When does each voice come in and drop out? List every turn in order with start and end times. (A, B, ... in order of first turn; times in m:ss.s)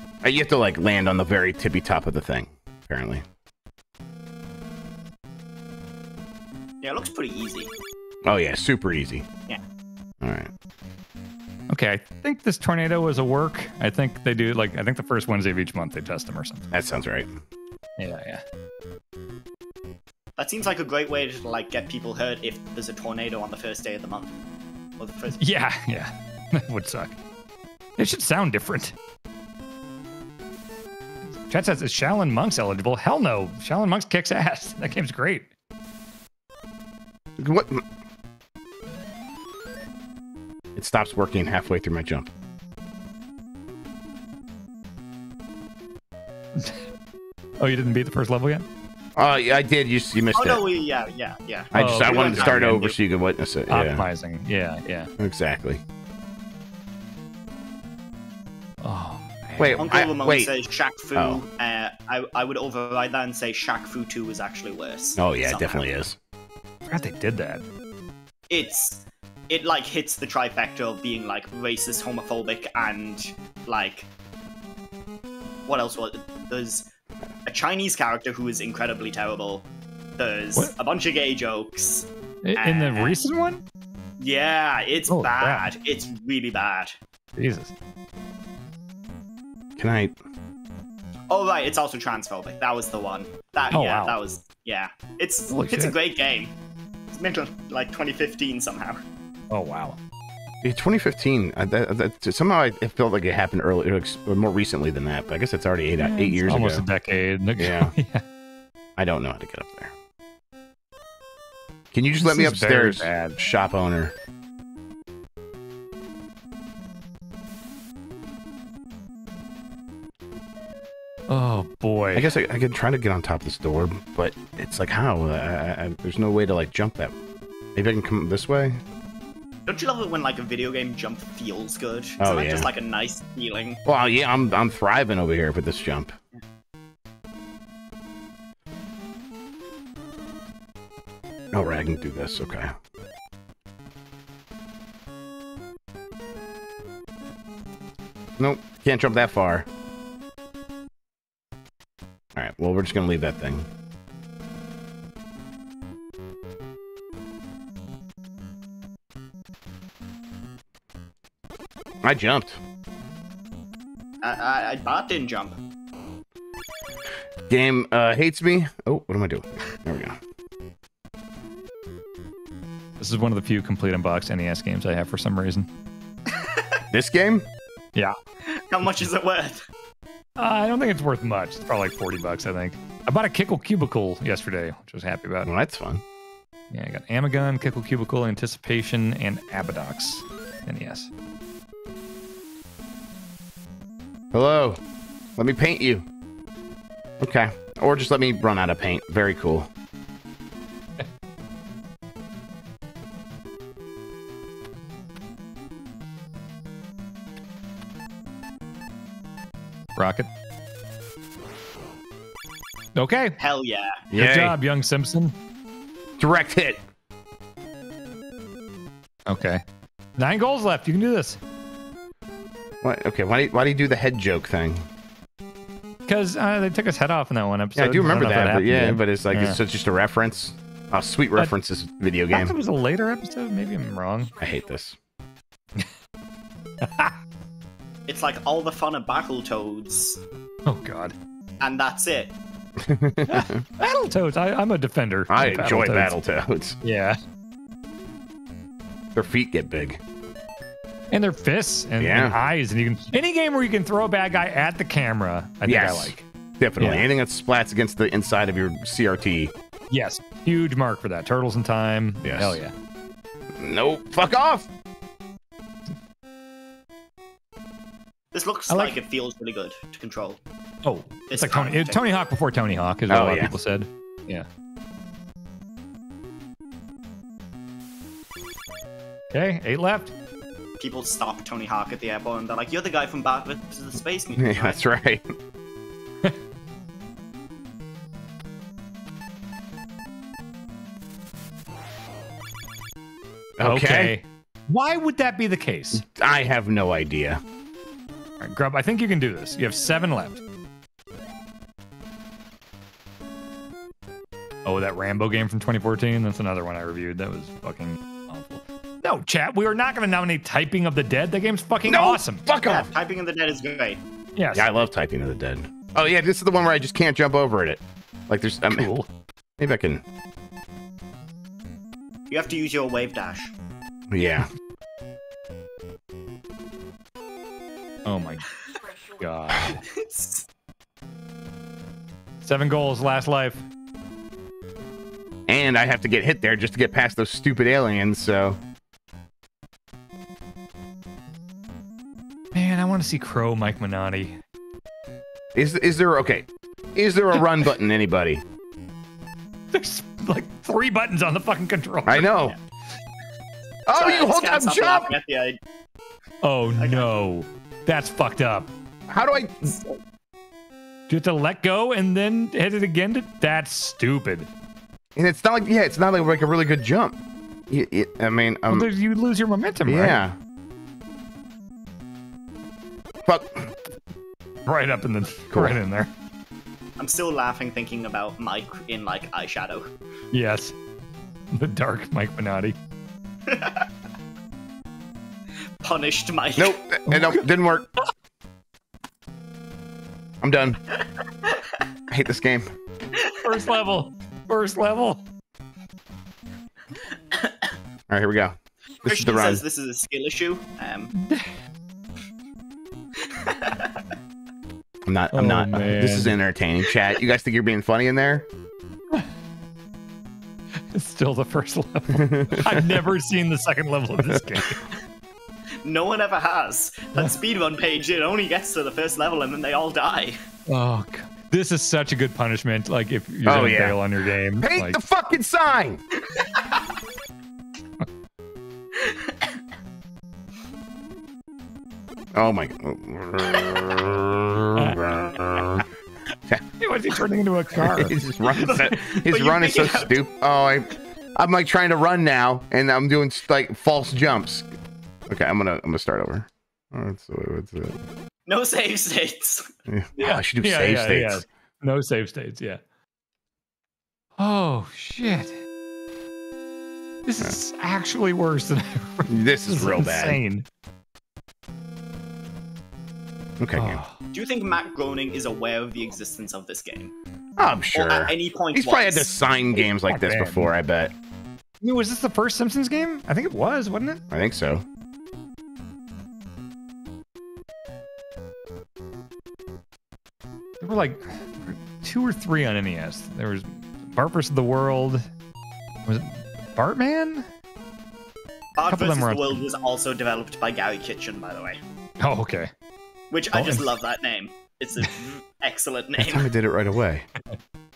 0:00.2-0:03.2 A
0:06.8-0:07.7 B
0:08.2-0:09.2 A
0:10.2-0:10.5 A
0:11.7-0:16.7 C
0:16.7-0:17.3 A
0:18.0-0:18.4 C
0:20.4-0:24.3 B
0:25.0-0:25.4 B
0:25.4-0:27.2 C
0:28.0-0:28.9 C
0:31.4-0:35.5 C
0:37.4-0:37.8 A
0:40.8-0:42.3 A
0:47.6-0:48.6 C
0:49.2-0:50.6 A
0:50.3-0:53.0 B
0:51.7-0:54.0 A
0:51.7-0:52.8 C
0:53.7-0:55.1 C
0:55.2-0:55.8 A
0:58.8-0:59.9 C
0:59.6-1:00.5 A
0:59.8-1:05.8 B
1:05.2-1:06.2 A
1:06.9-1:07.6 C
1:08.5-1:14.1 B
1:15.7-1:16.8 B
1:17.4-1:23.2 B
1:22.4-1:23.6 C
1:24.2-1:27.0 B
1:25.1-1:25.7 C
1:27.4-1:27.7 C
1:29.8-1:30.2 A
1:31.3-1:36.5 B
1:33.7-1:34.2 C
1:35.5-1:35.9 C
1:37.1-1:39.0 B
1:39.5-1:40.0 C
1:40.6-1:46.8 A
1:46.0-1:48.2 C
1:47.6-1:47.9 A
1:49.0-1:49.9 A
1:51.9-1:54.1 A
1:52.2-1:53.4 C
2:01.3-2:02.3 C
2:02.1-2:07.1 A
2:07.7-2:08.8 A
2:09.6-2:13.8 B
2:12.2-2:12.7 A
2:13.8-2:16.1 A
2:21.5-2:22.7 A
2:28.4-2:29.7 A
2:32.3-2:33.7 A
2:42.0-2:42.6 A
2:44.2-2:45.6 B
2:47.5-2:50.2 A
2:53.0-2:55.7 C
2:56.3-2:56.8 B
2:56.9-2:57.4 A
2:58.4-2:59.6 B
3:00.4-3:05.5 C
3:05.4-3:06.0 A
3:06.7-3:11.1 C
3:14.3-3:14.8 A
3:15.4-3:16.0 A
3:17.2-3:19.7 A
3:30.0-3:30.3 C
3:33.0-3:33.4 C
3:33.4-3:34.0 B
3:34.1-3:34.5 A
3:34.1-3:35.3 C
3:36.2-3:36.8 A
3:39.3-3:39.6 C
3:40.2-3:41.4 C
3:42.8-3:44.8 A
3:46.1-3:49.6 C
3:47.8-3:52.5 A
3:52.3-3:54.3 C
3:54.4-3:55.0 A
3:56.8-3:57.1 C
3:58.1-4:00.2 B
4:00.6-4:01.2 C
4:01.6-4:02.3 B
4:02.8-4:03.6 A
4:03.3-4:06.1 C
4:05.3-4:06.8 A
4:06.8-4:07.2 C
4:09.1-4:10.0 A
4:11.1-4:16.2 C
4:12.0-4:12.4 A
4:15.6-4:19.5 A
4:16.8-4:17.0 C
4:19.9-4:22.7 C
4:22.2-4:22.6 A
4:23.6-4:24.7 A
4:28.3-4:30.4 B
4:28.7-4:28.9 C
4:30.8-4:34.5 C
4:31.3-4:32.0 B
4:33.1-4:33.5 A
4:39.3-4:40.1 C
4:40.8-4:44.8 B
4:44.4-4:45.2 A
4:53.6-4:54.1 A
4:53.6-4:56.0 C
4:55.9-4:57.4 A
4:58.4-5:00.4 C
5:04.6-5:12.4 C
5:11.8-5:12.9 A
5:12.6-5:14.0 B
5:14.4-5:14.6 C
5:14.5-5:18.9 A
5:18.7-5:19.0 C
5:19.6-5:20.0 A
5:22.3-5:23.5 B
5:24.1-5:24.5 A
5:28.0-5:28.5 C
5:29.2-5:29.8 C
5:29.8-5:30.5 B
5:32.4-5:33.6 C
5:35.5-5:38.6 A
5:42.5-5:44.4 C
5:45.5-5:48.4 A
5:49.7-5:52.3 C
5:52.1-5:52.5 A
5:53.9-5:55.1 A
5:53.9-5:55.6 B
5:56.4-5:58.7 C
5:56.8-5:57.1 B
5:59.1-5:59.8 A
5:59.7-6:00.0 B
6:01.1-6:04.5 C
6:05.2-6:07.2 A
6:07.7-6:08.9 A
6:08.7-6:10.2 C
6:09.8-6:10.3 A
6:13.2-6:13.7 A
6:14.6-6:16.1 C
6:15.5-6:15.8 A
6:17.0-6:19.8 B
6:20.3-6:20.7 C
6:21.5-6:22.7 C
6:23.4-6:23.9 B
6:25.8-6:26.8 B
6:26.6-6:27.9 A
6:27.1-6:27.5 C
6:30.4-6:30.8 A
6:31.4-6:31.7 B
6:32.1-6:32.7 A
6:33.1-6:33.7 B
6:33.4-6:35.2 C
6:37.3-6:37.7 B
6:38.1-6:39.6 A
6:39.0-6:41.1 B
6:41.1-6:41.5 C
6:43.2-6:44.1 B
6:45.0-6:48.5 A
6:45.3-6:46.4 C
6:50.9-6:54.8 C
6:52.1-6:52.8 A
6:55.8-7:00.4 B
7:00.7-7:05.0 C
7:03.4-7:04.0 A
7:04.6-7:06.0 A
7:06.2-7:07.0 B
7:08.9-7:09.6 B
7:12.3-7:15.8 A
7:14.8-7:15.0 C
7:16.8-7:18.1 C
7:17.8-7:24.7 A
7:18.5-7:20.2 B
7:25.3-7:28.0 A
7:28.4-7:30.4 B
7:29.9-7:31.4 A
7:30.6-7:32.8 C
7:34.4-7:35.6 C
7:37.2-7:40.6 C
7:39.3-7:40.4 A
7:43.6-7:44.0 A
7:43.7-7:44.2 C
7:44.3-7:47.1 B
7:47.6-7:51.1 A
7:47.9-7:49.3 B
7:50.1-7:50.7 C
7:51.8-7:54.2 C
7:54.3-7:54.8 A
8:00.8-8:05.3 C
8:06.0-8:07.4 C
8:08.7-8:11.8 B
8:08.8-8:09.6 C
8:12.2-8:12.7 C
8:13.3-8:16.5 B
8:13.5-8:13.9 C
8:16.2-8:17.3 A